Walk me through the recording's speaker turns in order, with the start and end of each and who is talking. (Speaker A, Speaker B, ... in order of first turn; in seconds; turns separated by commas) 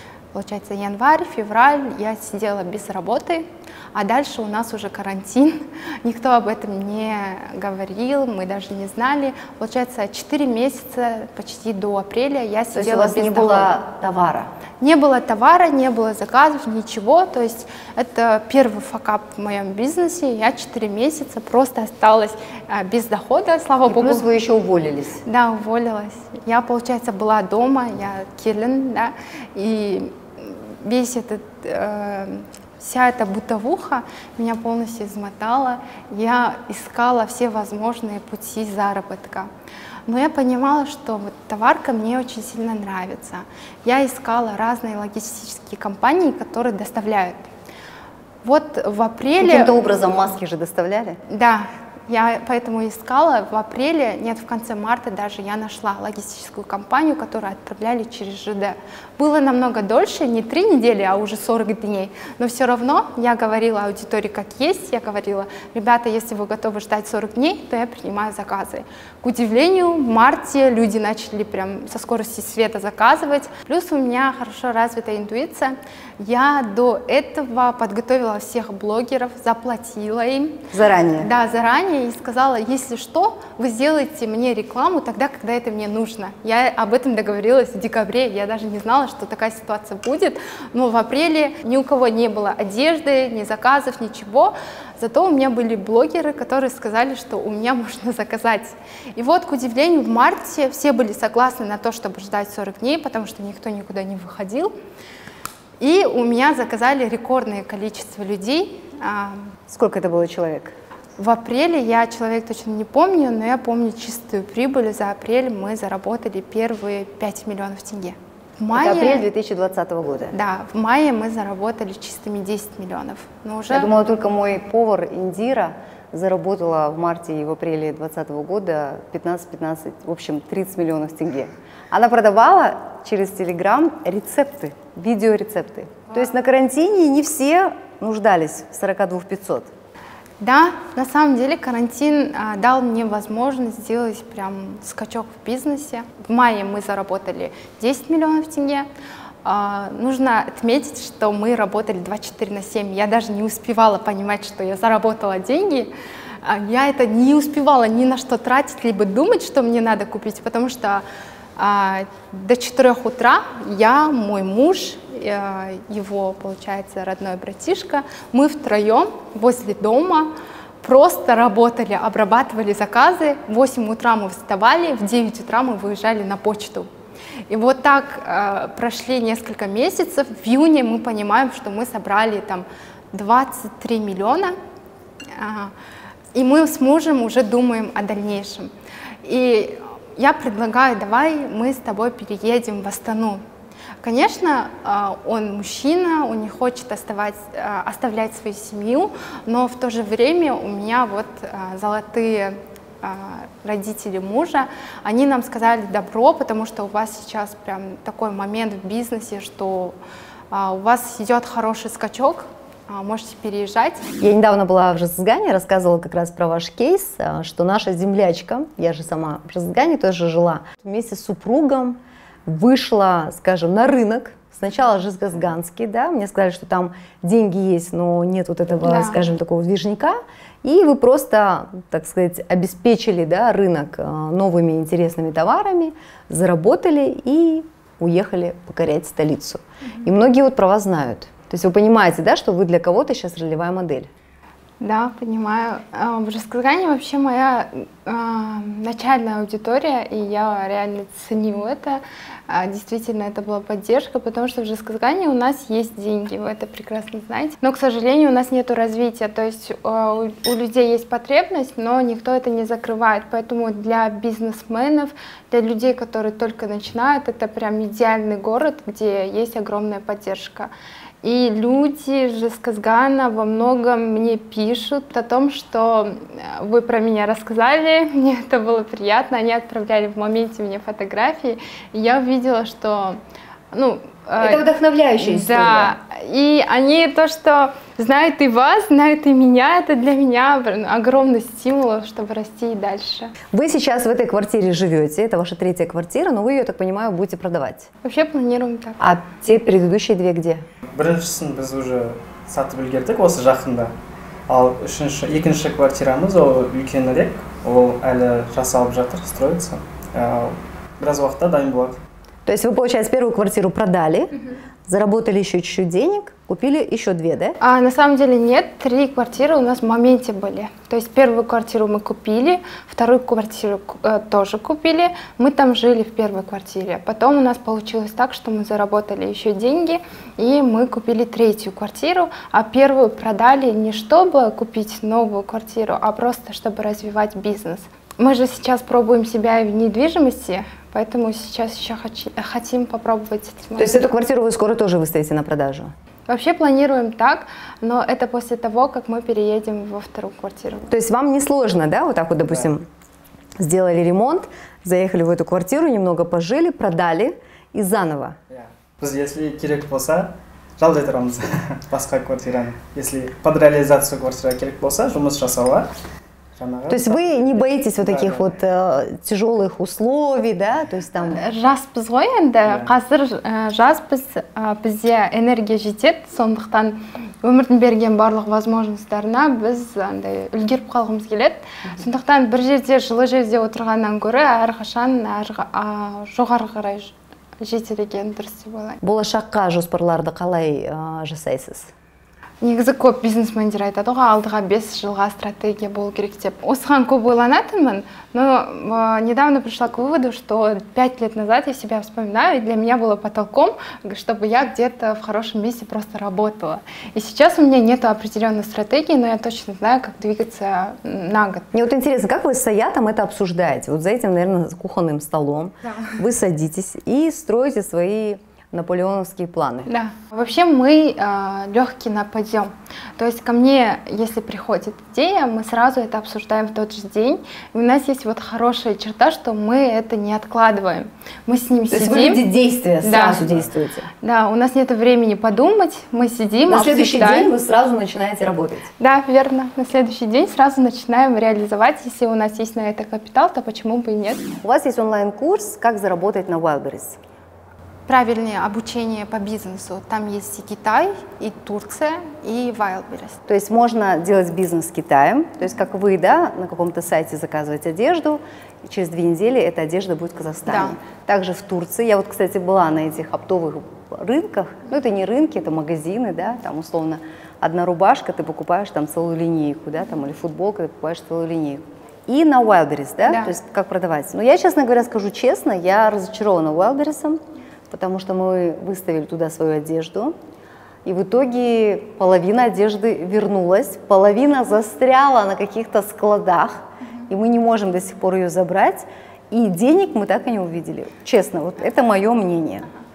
Speaker A: 0.3-13.8, Speaker B: 12.7-14.5, Speaker A: 14.8-24.2, Speaker B: 23.9-25.2, Speaker A: 25.2-39.5, Speaker A: 40.1-47.5, Speaker A: 48.4-49.7, Speaker B: 49.4-51.2, Speaker A: 51.3-104.7, Speaker B: 80.7-81.3, Speaker A: 105.8-109.5, Speaker B: 109.7-110.7, Speaker A: 111.2-119.2, Speaker B: 118.7-120.3, Speaker A: 120.3-123.9, Speaker B: 123.7-139.7, Speaker A: 140.4-148.9, Speaker A: 149.4-161.0, Speaker A: 161.6-176.9, Speaker A: 177.5-184.5, Speaker A: 185.3-185.7, Speaker A: 186.3-188.7, Speaker A: 189.2-193.4, Speaker A: 194.0-210.0, Speaker A: 210.5-214.1, Speaker B: 214.2-244.1, Speaker A: 228.8-229.2, Speaker A: 244.8-270.7, Speaker A: 271.2-283.2, Speaker A: 283.7-284.6, Speaker B: 284.4-285.9, Speaker A: 285.2-293.3, Speaker B: 293.5-297.9, Speaker A: 298.0-299.0, Speaker B: 299.0-300.6, Speaker C: 300.9-303.9, Speaker C: 304.5-312.0, Speaker B: 312.4-314.3, Speaker B: 314.9-317.6, Speaker A: 317.6-344.0, Speaker B: 343.8-345.9, Speaker A: 346.3-350.9, Speaker B: 350.9-352.8, Speaker B: 353.6-358.4, Speaker C: 358.5-365.9, Speaker C: 366.6-368.5, Speaker B: 366.9-371.4, Speaker A: 371.2-389.0, Speaker B: 389.0-391.9, Speaker A: 392.6-411.7, Speaker B: 411.7-419.9, Speaker A: 419.9-432.4, Speaker B: 431.9-434.1, Speaker A: 433.0-433.5, Speaker A: 434.2-437.5, Speaker B: 436.7-438.9, Speaker A: 439.0-444.5, Speaker B: 444.6-447.2, Speaker A: 448.1-453.4, Speaker B: 453.5-480.3, Speaker A: 460.7-460.9, Speaker A: 473.3-473.5, Speaker B: 481.0-492.9